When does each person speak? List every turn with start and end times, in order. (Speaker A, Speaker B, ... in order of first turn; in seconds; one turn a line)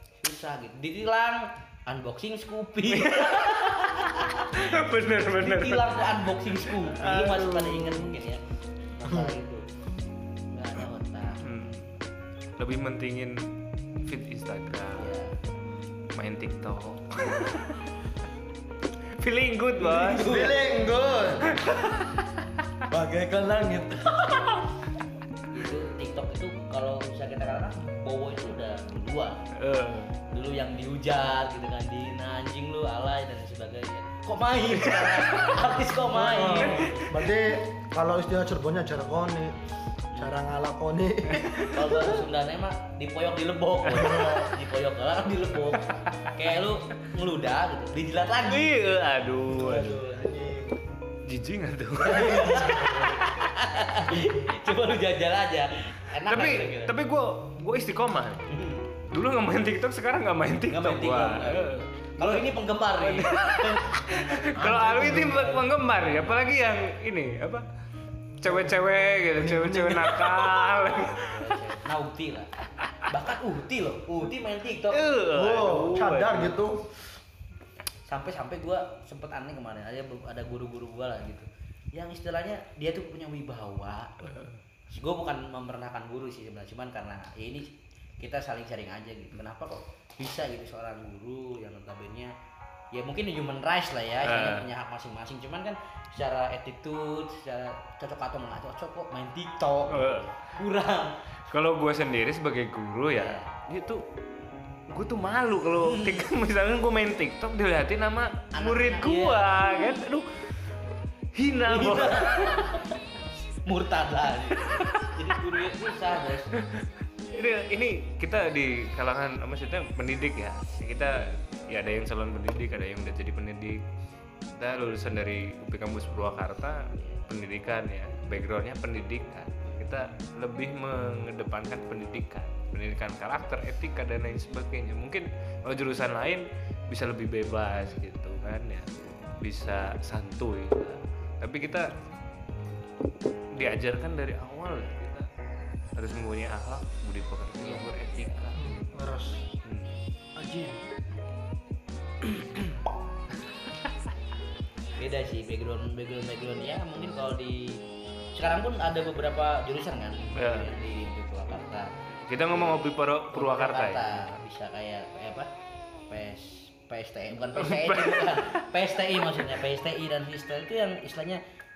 Speaker A: 0.2-8.4
Speaker B: 2.9-8.2
Speaker A: 8.9-9.6
Speaker C: 9.1-9.4
Speaker A: 10.5-11.4
Speaker B: 11.4-11.9
Speaker B: 12.6-13.4
Speaker B: 14.0-15.1
Speaker A: 15.0-15.4
Speaker B: 16.1-17.9
Speaker B: 19.1-20.3
Speaker A: 19.8-21.5
Speaker C: 20.2-21.6
Speaker B: 21.4-22.7
Speaker C: 22.9-24.8
Speaker A: 25.5-29.4
Speaker B: 29.5-30.1
Speaker A: 30.3-37.0
Speaker B: 34.9-35.5
Speaker C: 36.1-39.6
Speaker B: 36.6-37.2
Speaker C: 40.1-41.6
Speaker B: 41.4-42.1
Speaker A: 41.7-48.9
Speaker C: 44.0-44.5
Speaker B: 44.0-44.3
Speaker B: 45.8-46.3
Speaker B: 48.4-50.1
Speaker C: 49.5-50.8
Speaker B: 51.2-53.5
Speaker A: 52.0-56.9
Speaker C: 52.6-53.1
Speaker B: 56.3-58.6
Speaker A: 58.5-58.9
Speaker B: 59.1-67.7
Speaker A: 60.7-66.5
Speaker C: 64.6-65.6
Speaker B: 68.4-71.5
Speaker C: 68.4-68.8
Speaker C: 69.3-70.1
Speaker A: 70.0-72.5
Speaker A: 73.1-75.2
Speaker B: 74.9-76.6
Speaker C: 75.3-76.9
Speaker A: 78.1-92.3
Speaker A: 92.9-101.1
Speaker B: 94.2-94.7
Speaker B: 99.9-100.5
Speaker B: 101.5-104.0
Speaker A: 103.1-103.5
Speaker B: 104.9-110.3
Speaker A: 105.8-106.3
Speaker A: 108.5-110.0
Speaker B: 111.3-112.8
Speaker A: 111.7-113.0
Speaker A: 113.6-116.7
Speaker B: 116.6-123.8
Speaker B: 124.6-141.9
Speaker A: 127.0-127.3
Speaker B: 143.5-145.3
Speaker B: 146.0-148.8
Speaker A: 147.6-147.9
Speaker C: 148.6-149.5
Speaker B: 149.6-150.0
Speaker C: 150.4-150.8
Speaker B: 152.2-152.8
Speaker A: 155.0-157.8
Speaker A: 158.3-161.9
Speaker B: 160.4-160.7
Speaker B: 162.1-164.4
Speaker A: 162.5-165.5
Speaker A: 166.1-171.4
Speaker B: 167.6-168.7